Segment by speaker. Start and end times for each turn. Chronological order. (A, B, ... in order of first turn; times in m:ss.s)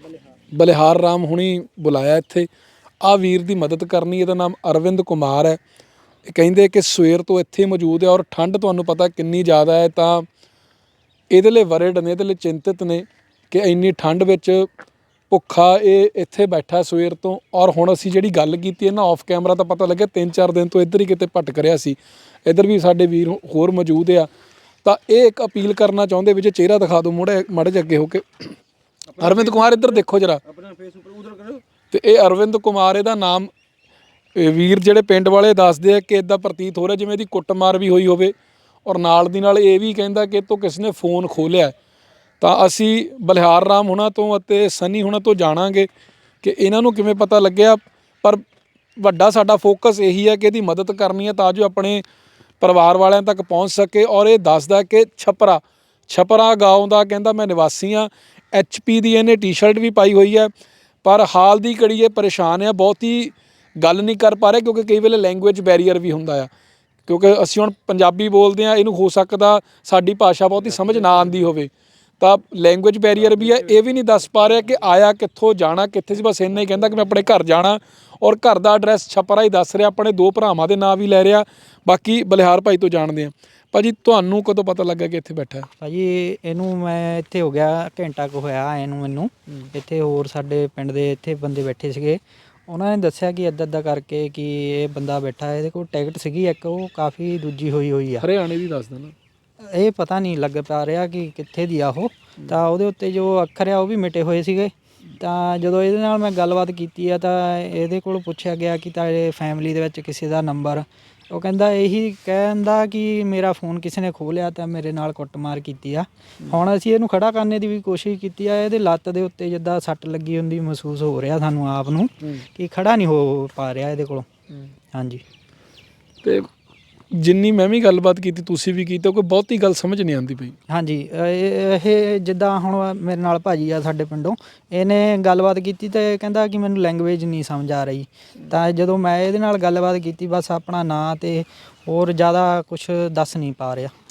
0:00.5-0:02.5 A
0:03.0-0:05.6 A
0:06.2-0:10.2 A
0:11.3-0:14.7 A
0:15.3-0:24.3 A
0:24.8-0:28.5 A
0:29.1-0:31.6 B
0:29.2-0:30.4 A
0:31.9-0:33.5 A
0:34.4-0:38.3 A
0:38.8-0:41.7 A
0:42.4-0:45.9 A
0:46.4-0:48.4 A
0:49.0-0:52.0 A
0:52.6-1:00.5 A
1:01.0-1:06.5 A
1:07.1-1:25.7 A
1:10.7-1:11.3 B
1:13.2-1:13.7 B
1:25.8-1:38.3 C
1:38.2-1:39.1 A
1:39.6-2:04.3 C
2:04.9-2:05.2 C
2:07.1-2:10.6 A
2:10.7-2:23.9 C